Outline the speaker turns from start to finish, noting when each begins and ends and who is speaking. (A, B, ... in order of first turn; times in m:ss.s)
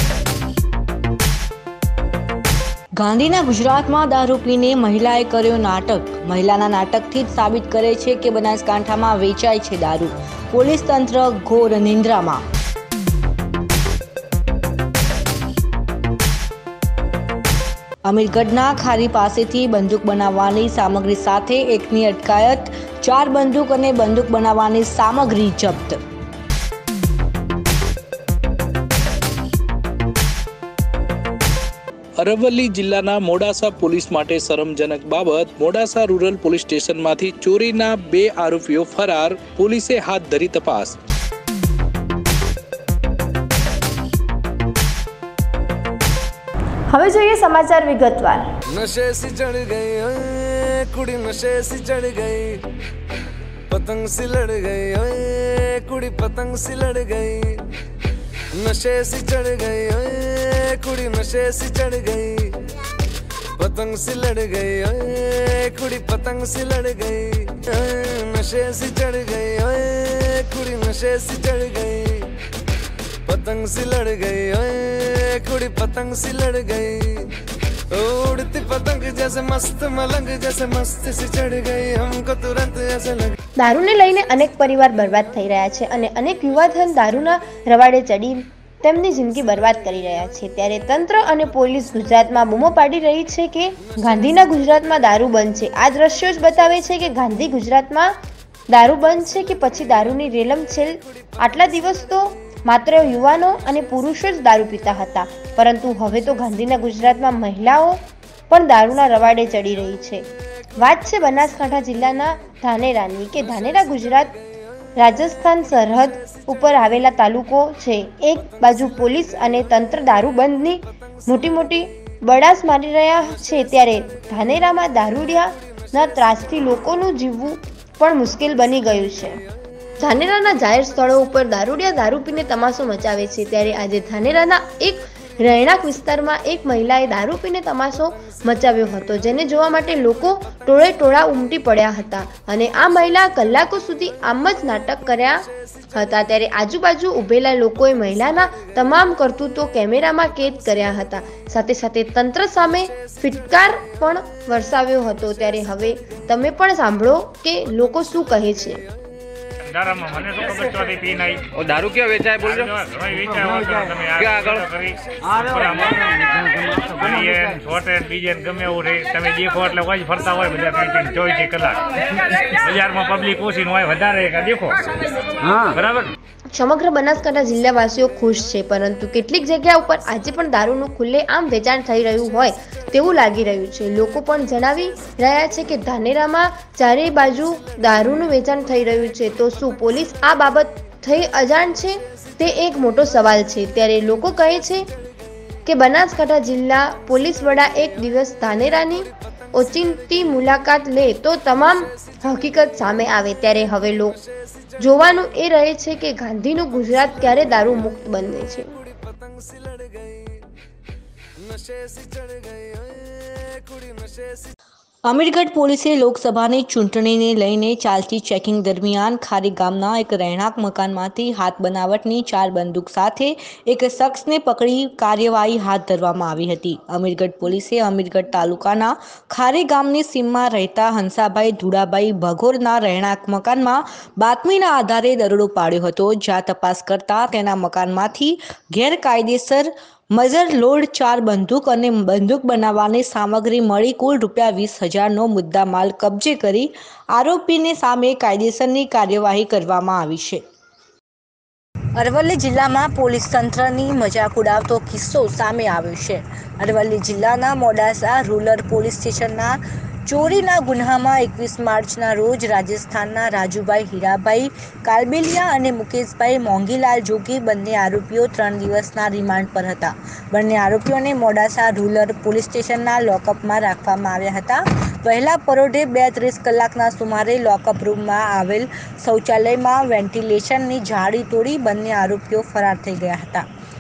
0:03.0-0:12.4 A
0:18.0-0:26.0 A
0:32.2-0:41.0 B
0:46.9-0:48.5 C
0:48.7-0:52.6 D
0:53.7-0:57.7 D
0:58.5-1:02.6 D
1:03.6-1:12.3 D
1:13.2-1:17.3 D
1:17.9-1:23.4 D
1:23.6-1:38.1 C
1:38.7-1:54.4 C
1:55.0-2:09.4 C
2:10.0-2:38.8 C
2:39.7-2:41.4 E
2:41.5-2:42.8 F
2:42.4-2:46.1 E
2:43.5-2:44.6 F
2:45.3-2:45.6 F
2:46.5-2:46.8 F
2:46.8-2:54.8 E
2:55.4-2:55.7 F
2:55.7-2:56.1 E
2:56.5-3:14.9 C
3:15.6-3:24.2 C
3:24.8-3:28.7 C
3:28.8-3:30.4 D
3:31.4-3:34.5 D
3:35.0-4:10.4 A
4:12.0-4:43.4 A